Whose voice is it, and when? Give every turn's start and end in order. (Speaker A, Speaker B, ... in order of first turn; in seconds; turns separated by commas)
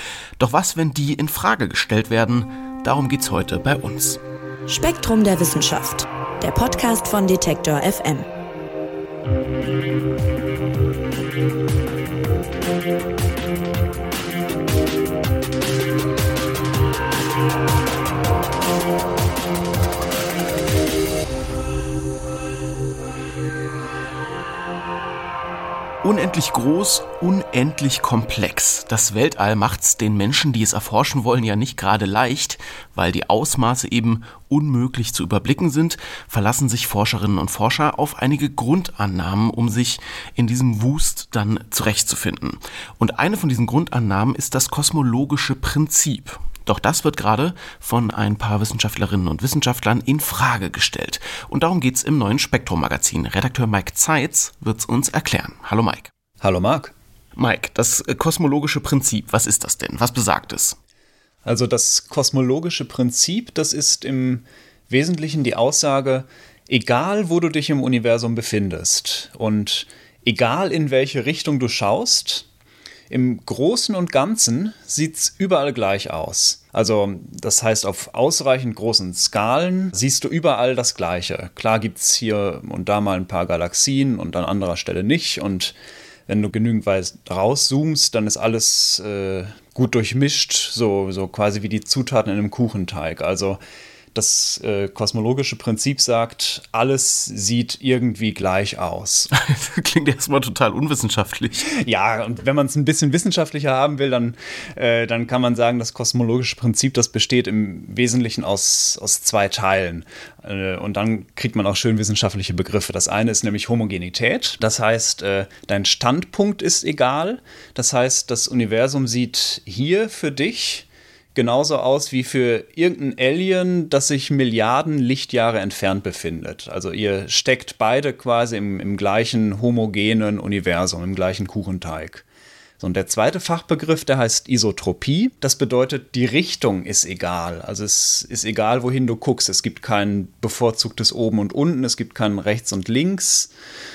Speaker A: 0.4-4.2, Speaker B: 4.7-8.3, Speaker A: 26.0-56.1, Speaker C: 56.4-56.9, Speaker A: 57.4-60.8, Speaker C: 61.4-72.5, Speaker C: 73.1-85.8, Speaker C: 86.3-93.6, Speaker C: 94.1-99.3, Speaker A: 99.3-101.7, Speaker C: 101.7-132.2, Speaker C: 132.8-143.5